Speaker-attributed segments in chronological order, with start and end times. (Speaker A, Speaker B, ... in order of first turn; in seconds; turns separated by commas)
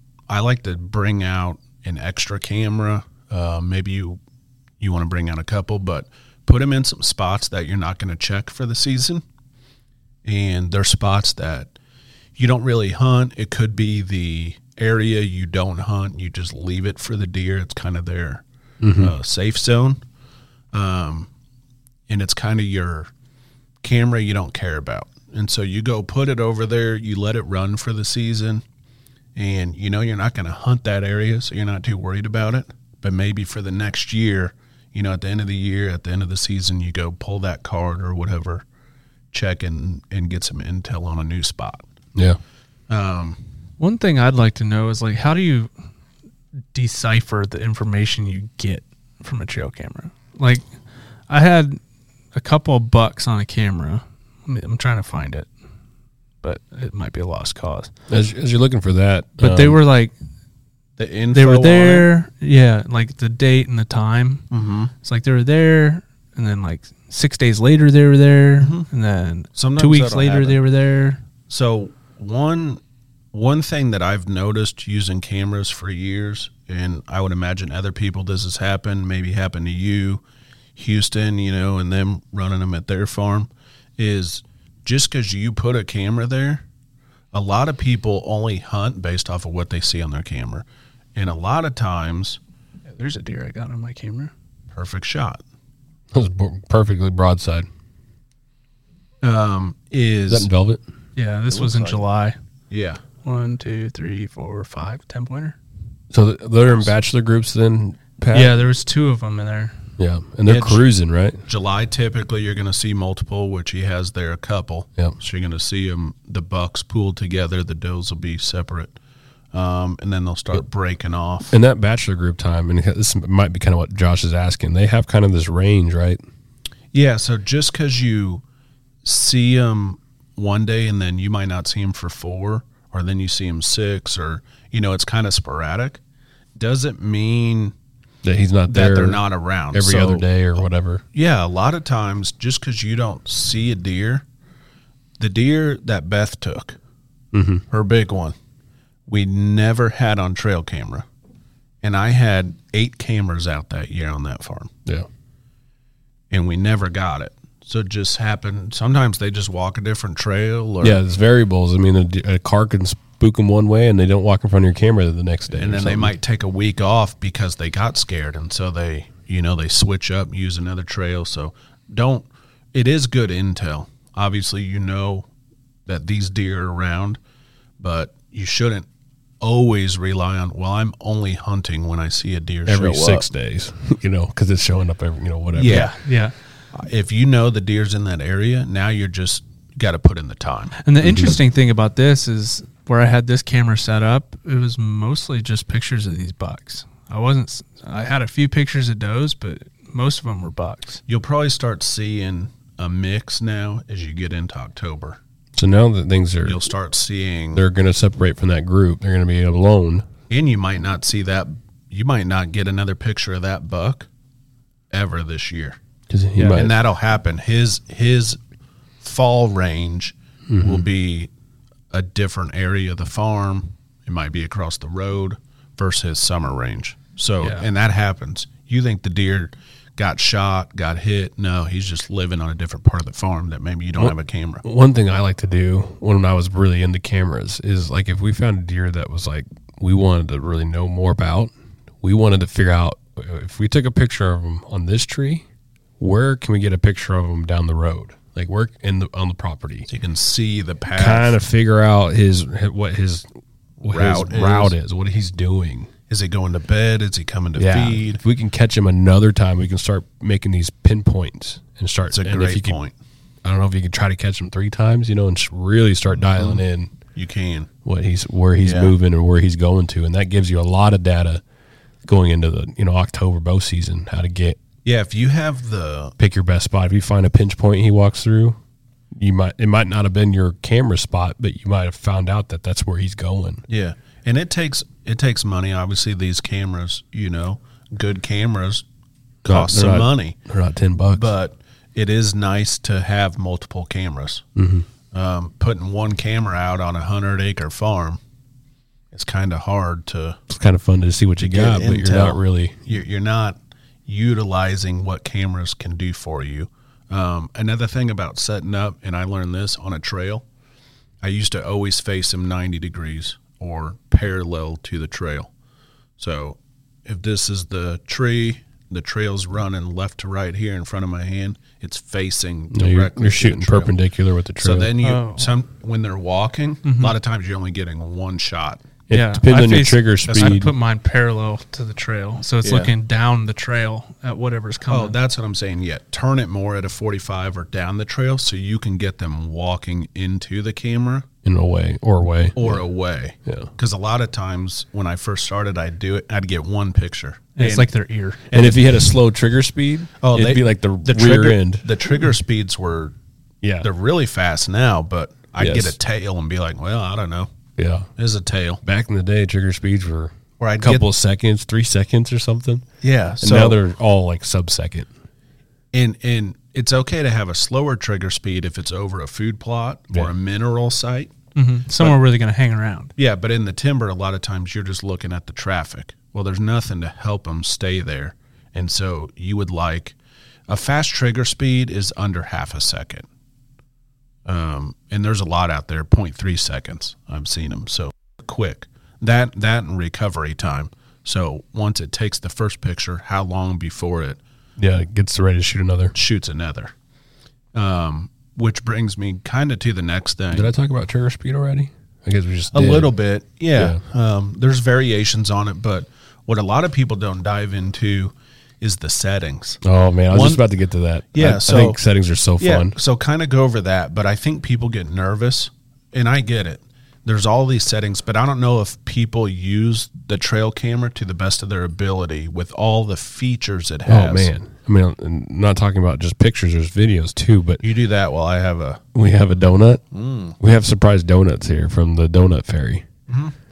Speaker A: 0.3-4.2, Speaker A: 4.8-9.2, Speaker A: 10.2-11.7, Speaker A: 12.3-18.4, Speaker B: 18.8-19.1, Speaker A: 18.9-20.0, Speaker A: 20.7-21.3, Speaker A: 22.1-23.1, Speaker A: 23.8-28.6, Speaker A: 29.4-38.6, Speaker A: 39.3-41.8, Speaker A: 42.9-43.4, Speaker C: 43.8-45.7, Speaker C: 46.7-50.6, Speaker C: 51.3-51.8, Speaker C: 52.3-55.5, Speaker C: 56.4-57.9, Speaker B: 58.1-59.8, Speaker C: 59.4-60.1, Speaker A: 61.0-62.1, Speaker C: 61.3-64.5, Speaker A: 64.5-64.9, Speaker C: 65.0-71.2, Speaker A: 68.6-68.9, Speaker A: 69.5-70.6, Speaker A: 71.5-72.8, Speaker A: 73.3-80.2, Speaker A: 80.8-86.6, Speaker A: 87.3-92.4, Speaker C: 92.9-94.3, Speaker A: 94.7-95.4, Speaker B: 96.1-97.7, Speaker A: 99.2-100.5, Speaker B: 100.3-100.8, Speaker C: 101.2-102.3, Speaker A: 101.5-102.0, Speaker A: 102.7-103.0, Speaker C: 103.2-105.5, Speaker B: 106.1-108.5, Speaker C: 108.3-109.8, Speaker B: 110.0-111.4, Speaker A: 110.5-110.8, Speaker A: 111.4-119.0, Speaker A: 119.5-121.5, Speaker B: 121.5-126.2, Speaker A: 126.9-128.4, Speaker A: 129.0-136.0, Speaker A: 136.6-137.7, Speaker B: 138.2-141.0, Speaker A: 138.7-140.3, Speaker A: 141.1-144.2, Speaker A: 145.2-146.8, Speaker B: 147.3-147.6, Speaker A: 147.7-148.3, Speaker A: 149.1-151.1, Speaker A: 151.8-154.7, Speaker A: 156.3-161.0, Speaker B: 160.8-166.1, Speaker A: 165.5-175.3, Speaker A: 175.8-177.2, Speaker A: 177.8-178.9, Speaker A: 179.4-183.3, Speaker B: 182.7-185.9, Speaker A: 185.6-186.0, Speaker C: 185.6-186.3, Speaker A: 186.7-190.8, Speaker C: 190.8-201.0, Speaker B: 191.0-191.4, Speaker A: 201.1-205.2, Speaker B: 205.6-206.6, Speaker A: 206.4-207.6, Speaker B: 207.5-210.1, Speaker A: 210.3-214.1, Speaker A: 214.9-215.8, Speaker B: 216.1-216.8, Speaker A: 216.4-218.4, Speaker A: 219.0-221.3, Speaker B: 220.5-220.8, Speaker A: 221.9-234.6, Speaker C: 227.4-227.7, Speaker B: 234.0-245.4, Speaker B: 246.0-249.9, Speaker A: 249.9-251.4, Speaker B: 250.9-253.3, Speaker B: 253.8-255.9, Speaker A: 253.9-254.7, Speaker A: 256.1-258.2, Speaker B: 257.6-262.8, Speaker A: 262.1-262.9, Speaker B: 263.4-266.9, Speaker A: 267.1-267.7, Speaker B: 267.8-271.4, Speaker A: 268.6-268.9, Speaker B: 272.0-274.6, Speaker A: 274.8-276.1, Speaker B: 276.2-278.6, Speaker B: 279.1-283.6, Speaker A: 283.7-288.8, Speaker A: 289.4-290.4, Speaker B: 289.4-291.3, Speaker A: 291.1-294.4, Speaker B: 294.6-294.9, Speaker A: 295.1-298.2, Speaker A: 299.1-300.4, Speaker B: 300.5-302.8, Speaker A: 301.4-310.4, Speaker A: 311.2-315.5, Speaker A: 316.2-323.9, Speaker B: 322.7-324.9, Speaker A: 324.6-328.8, Speaker C: 325.0-325.5, Speaker C: 326.8-327.1, Speaker B: 329.1-330.7, Speaker C: 329.1-335.1, Speaker A: 330.3-330.6, Speaker A: 332.6-332.9, Speaker A: 334.9-341.3, Speaker B: 341.4-342.8, Speaker A: 342.6-347.9, Speaker B: 343.4-343.7, Speaker C: 347.6-348.5, Speaker A: 348.5-349.1, Speaker B: 348.5-351.9, Speaker A: 350.2-353.1, Speaker B: 353.6-353.9, Speaker A: 353.8-357.5, Speaker B: 355.6-356.0, Speaker B: 357.8-358.1, Speaker A: 358.1-358.8, Speaker B: 358.8-362.8, Speaker A: 360.6-361.1, Speaker A: 363.0-363.8, Speaker B: 363.4-365.1, Speaker A: 365.9-371.3, Speaker C: 371.6-373.1, Speaker A: 373.2-380.1, Speaker A: 380.7-383.2, Speaker A: 384.4-394.4, Speaker B: 394.8-396.1, Speaker A: 396.1-396.9, Speaker A: 397.7-400.7, Speaker B: 400.5-403.1, Speaker A: 402.7-410.6, Speaker B: 409.8-412.9, Speaker A: 411.3-412.0, Speaker A: 412.6-424.5, Speaker B: 424.1-427.8, Speaker A: 427.8-429.0, Speaker B: 429.1-430.0, Speaker A: 430.1-430.6, Speaker B: 430.6-433.0, Speaker A: 433.3-433.5